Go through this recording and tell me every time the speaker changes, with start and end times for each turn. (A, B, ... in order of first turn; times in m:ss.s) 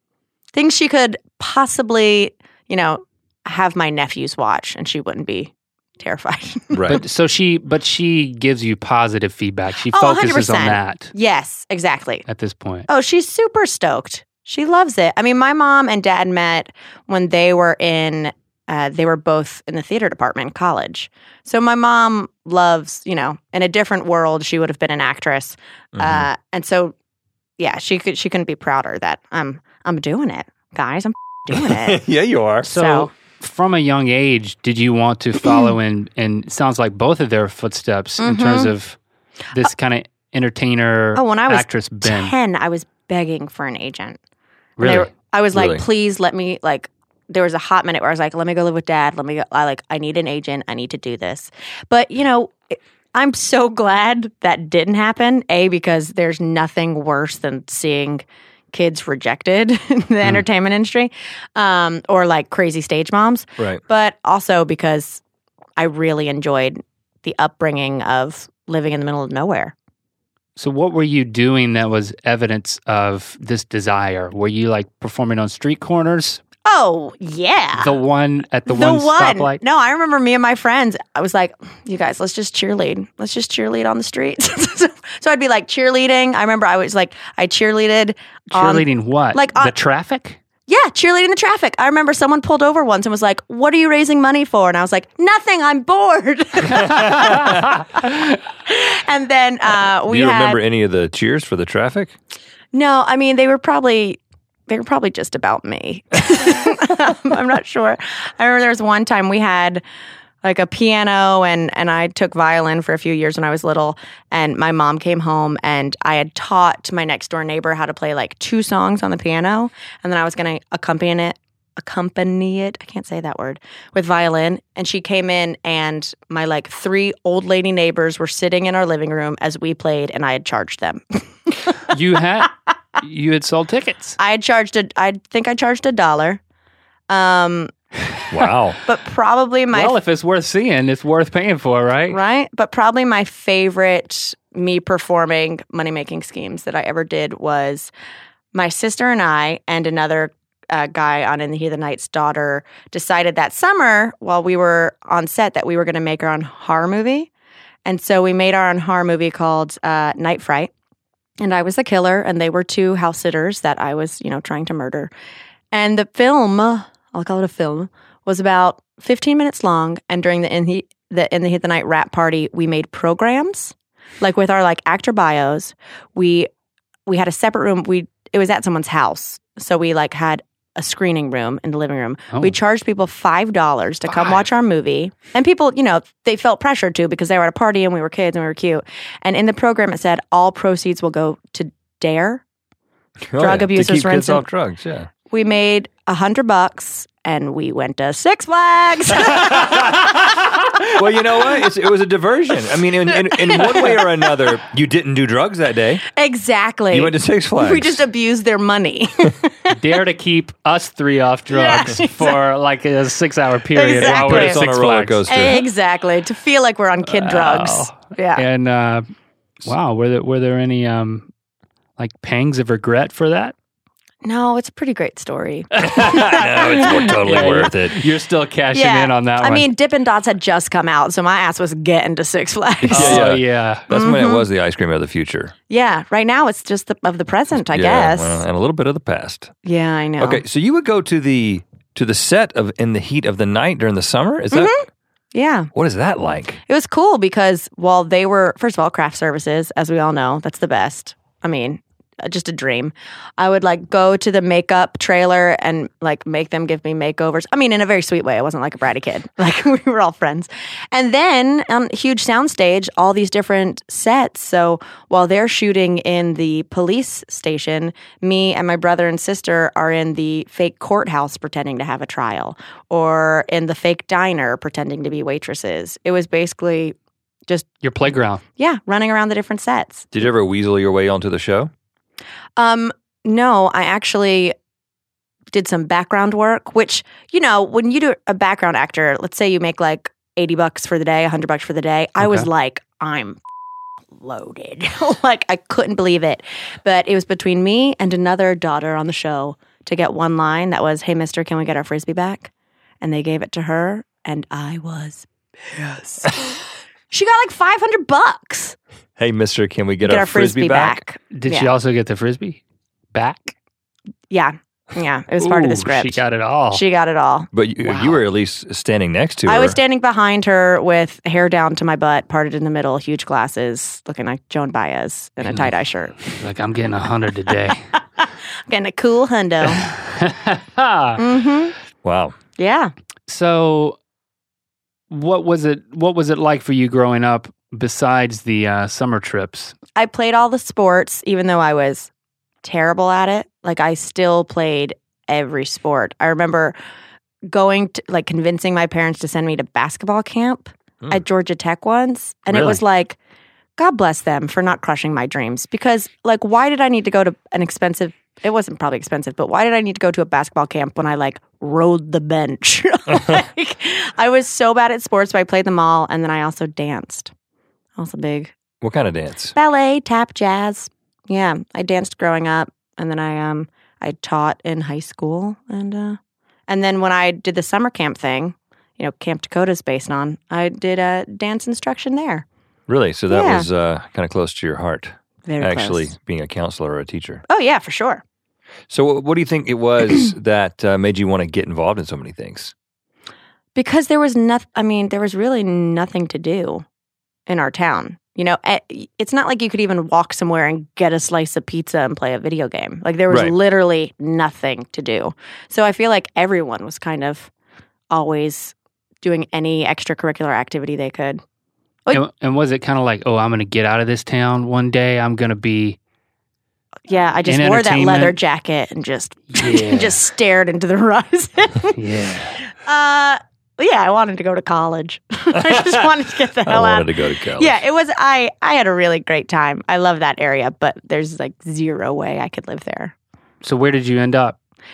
0:00.5-0:07.0 A
0:06.7-0:07.0 B
0:06.9-0:11.1 C
0:09.9-0:12.2 A
0:12.2-0:12.9 C
0:12.9-0:26.9 A
0:25.9-0:26.3 B
0:27.6-0:32.0 A
0:31.5-0:32.7 B
0:32.6-0:39.0 C
0:32.7-0:33.1 A
0:38.2-0:38.7 A
0:39.5-0:42.3 C
0:41.2-0:44.2 A
0:44.8-0:45.1 C
0:44.8-1:05.2 A
0:45.5-0:45.8 B
1:05.8-1:09.7 A
1:10.6-1:16.4 C
1:16.6-1:18.0 A
1:17.8-1:19.6 C
1:18.7-1:29.7 A
1:28.5-1:30.4 C
1:30.7-1:40.6 A
1:36.9-1:37.7 C
1:40.1-1:42.1 B
1:42.7-1:49.8 A
1:50.4-2:11.9 A
2:11.9-2:14.2 C
2:14.2-2:16.4 A
2:17.1-2:17.7 A
2:18.3-2:18.8 B
2:18.8-2:19.9 A
2:19.7-2:22.2 C
2:22.1-2:27.9 A
2:28.5-2:37.3 A
2:37.8-2:40.7 A
2:41.4-2:45.1 A
2:45.7-2:56.5 A
2:57.1-3:12.4 A
3:04.1-3:04.4 C
3:13.3-3:15.1 B
3:13.4-3:14.4 A
3:15.3-3:20.1 A
3:19.3-3:20.1 B
3:20.9-3:26.0 B
3:23.1-3:24.3 A
3:26.1-3:29.7 A
3:26.9-3:28.0 B
3:29.7-3:35.2 C
3:31.5-3:32.4 A
3:33.7-3:34.6 A
3:34.0-3:35.7 B
3:35.3-3:38.4 A
3:37.0-3:39.1 C
3:39.6-3:41.3 C
3:42.0-3:43.5 C
3:44.2-3:47.5 A
3:45.7-3:49.6 C
3:45.8-3:48.0 B
3:48.7-3:53.3 A
3:52.9-3:55.5 B
3:52.9-3:53.9 C
3:53.9-3:54.5 A
3:55.7-3:58.4 A
3:57.6-3:59.5 B
3:59.6-4:00.4 A
4:00.2-4:04.7 B
4:04.5-4:05.7 A
4:05.7-4:06.6 B
4:06.7-4:36.9 A
4:37.8-4:38.4 C
4:38.6-4:40.1 A
4:40.1-4:41.7 B
4:42.6-4:44.5 A
4:45.5-4:53.4 A
4:52.2-4:52.5 C
4:54.2-5:02.5 A
5:03.0-5:08.8 A
5:09.2-5:11.0 B
5:10.0-5:11.7 A
5:11.3-5:12.6 C
5:13.1-5:13.5 C
5:14.3-5:18.1 A
5:15.4-5:16.8 C
5:17.5-5:19.8 B
5:19.5-5:26.2 A
5:26.2-5:27.8 C
5:28.2-5:29.9 A
5:29.6-5:31.2 C
5:31.2-5:31.7 A
5:32.0-5:32.4 B
5:32.6-5:32.9 A
5:33.3-5:34.0 C
5:35.1-5:39.7 C
5:40.0-5:42.1 A
5:42.6-5:46.8 A
5:47.5-5:53.2 A
5:52.5-5:52.8 C
5:53.8-6:07.3 A
6:08.0-6:08.5 A
6:08.8-6:09.5 B
6:09.6-6:22.4 A
6:22.9-6:27.4 B
6:23.3-6:23.7 A
6:25.4-6:26.1 A
6:27.5-6:28.2 A
6:28.9-6:32.7 B
6:33.7-6:36.8 A
6:37.5-6:47.5 A
6:43.3-6:43.5 B
6:48.1-6:51.4 A
6:52.1-6:56.0 C
6:57.1-7:02.0 A
6:57.4-6:58.4 C
6:59.5-7:00.2 C
7:01.9-7:02.6 C
7:02.6-7:13.1 A
7:05.5-7:06.1 B
7:06.6-7:07.8 B
7:13.6-7:14.6 C